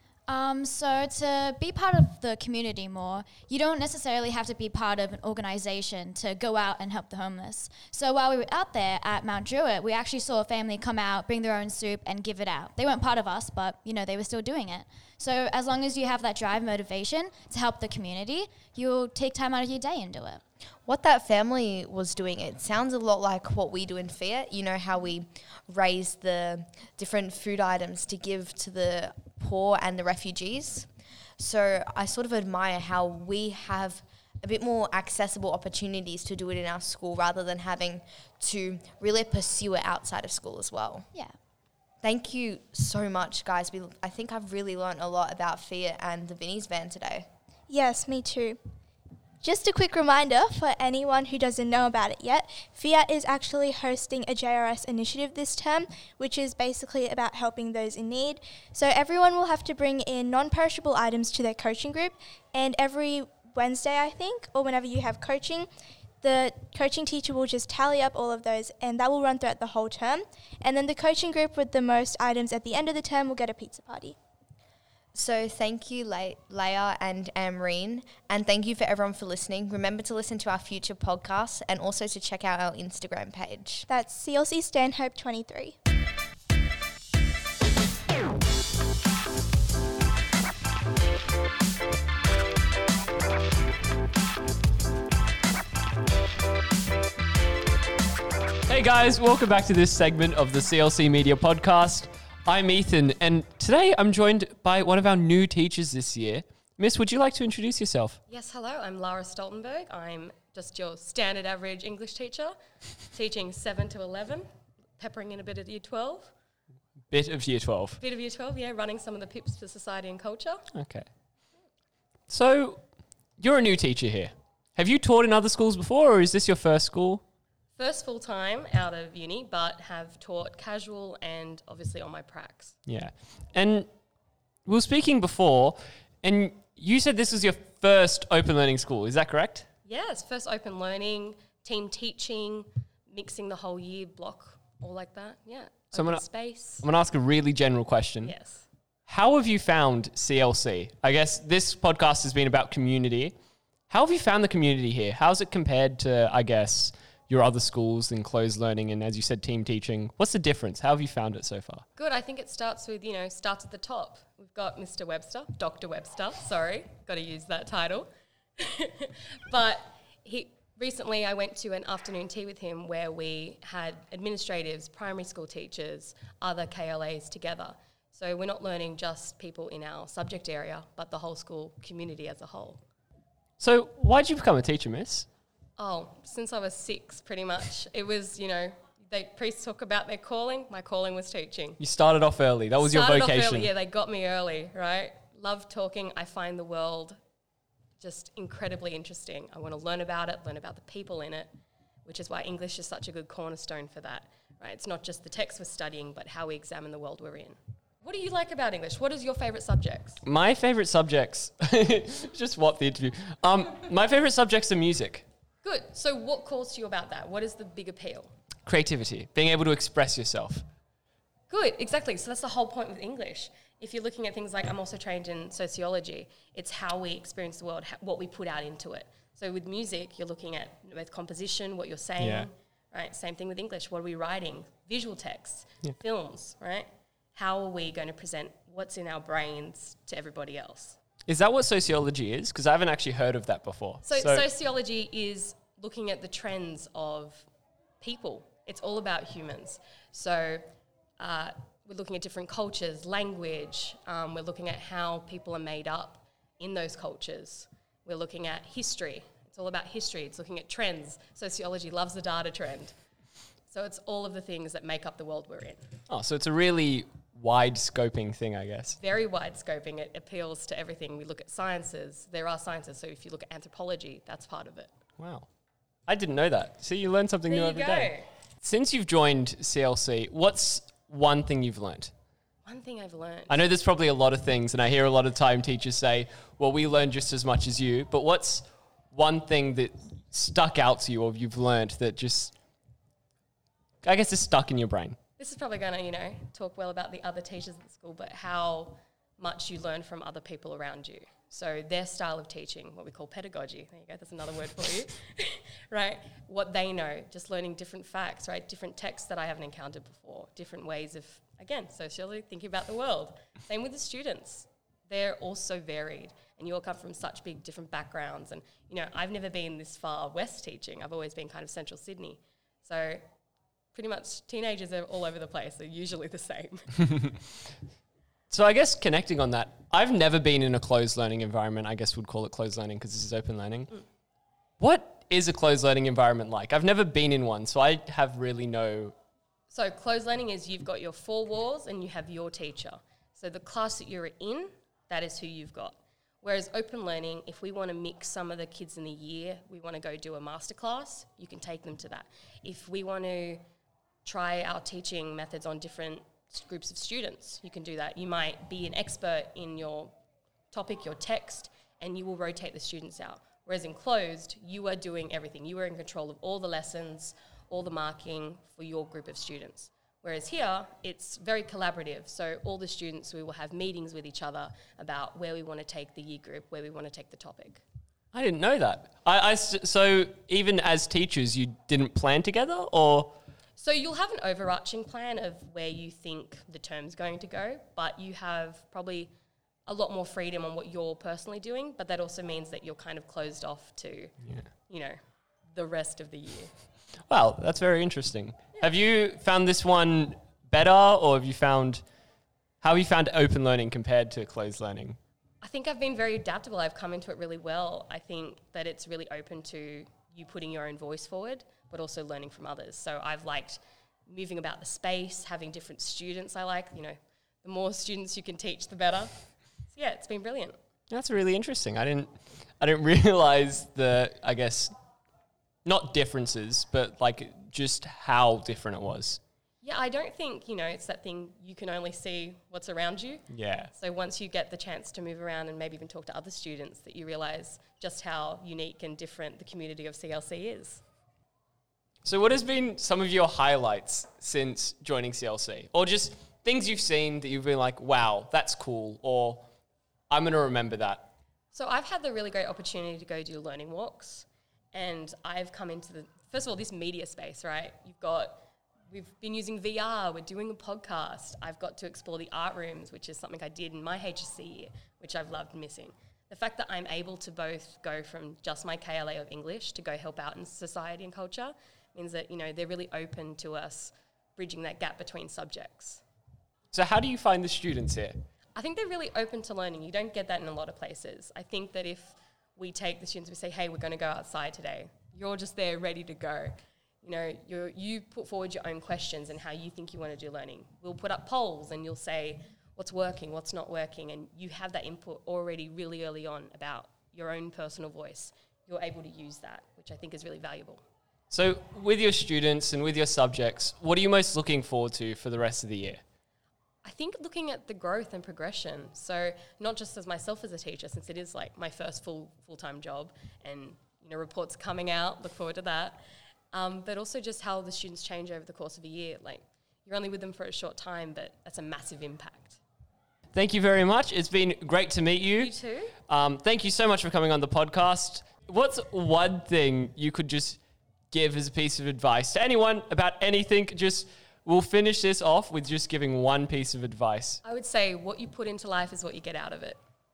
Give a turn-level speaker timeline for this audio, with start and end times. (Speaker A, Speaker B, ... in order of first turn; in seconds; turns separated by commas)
Speaker A: 0.3-20.4, Speaker B: 20.8-41.1, Speaker B: 42.0-47.3, Speaker C: 47.7-48.6, Speaker C: 49.4-74.2, Speaker B: 75.1-83.8, Speaker C: 83.9-85.8, Speaker D: 98.7-108.2, Speaker E: 108.3-114.5, Speaker E: 115.0-116.3, Speaker D: 117.1-118.0, Speaker E: 118.0-120.6, Speaker D: 120.7-121.1, Speaker D: 122.3-127.2, Speaker E: 127.7-132.8, Speaker D: 132.8-133.9, Speaker D: 134.6-139.7, Speaker E: 139.8-146.8, Speaker D: 145.9-148.3, Speaker E: 148.2-148.7, Speaker D: 149.1-153.3, Speaker D: 153.9-161.8, Speaker E: 161.9-182.8, Speaker D: 183.6-185.3, Speaker E: 185.8-191.8, Speaker D: 191.8-193.7, Speaker E: 192.8-197.2, Speaker E: 198.0-201.5, Speaker E: 202.0-210.2, Speaker D: 210.2-215.2, Speaker E: 215.6-218.3, Speaker D: 218.7-220.6, Speaker E: 221.5-241.0, Speaker D: 232.2-232.5, Speaker D: 241.3-244.4, Speaker E: 244.0-247.4, Speaker E: 248.0-250.6, Speaker E: 251.2-262.9, Speaker E: 263.7-265.8, Speaker D: 266.1-269.0, Speaker E: 269.0-274.9, Speaker D: 275.2-275.5, Speaker D: 276.1-282.1, Speaker E: 277.5-278.3, Speaker E: 282.6-283.6, Speaker D: 283.5-292.5, Speaker D: 294.0-295.2, Speaker E: 295.4-323.2, Speaker E: 323.9-326.9, Speaker D: 328.5-333.9, Speaker D: 334.8-339.1, Speaker E: 339.7-353.6, Speaker E: 354.2-360.1, Speaker E: 360.7-377.8, Speaker D: 378.3-383.4, Speaker E: 383.8-389.3, Speaker E: 389.9-396.7, Speaker D: 394.4-394.7, Speaker D: 397.2-402.1, Speaker D: 402.8-405.2, Speaker E: 405.6-420.8, Speaker D: 421.1-424.9, Speaker D: 425.8-429.4, Speaker E: 429.8-441.0, Speaker D: 433.5-433.9, Speaker D: 442.2-449.7, Speaker D: 450.3-451.3, Speaker E: 451.7-476.2, Speaker D: 476.9-478.4, Speaker E: 478.7-501.0, Speaker D: 501.5-506.2, Speaker E: 507.0-516.2, Speaker E: 516.7-522.8, Speaker D: 523.5-530.8, Speaker E: 525.6-526.1, Speaker D: 531.3-537.6, Speaker E: 537.6-540.0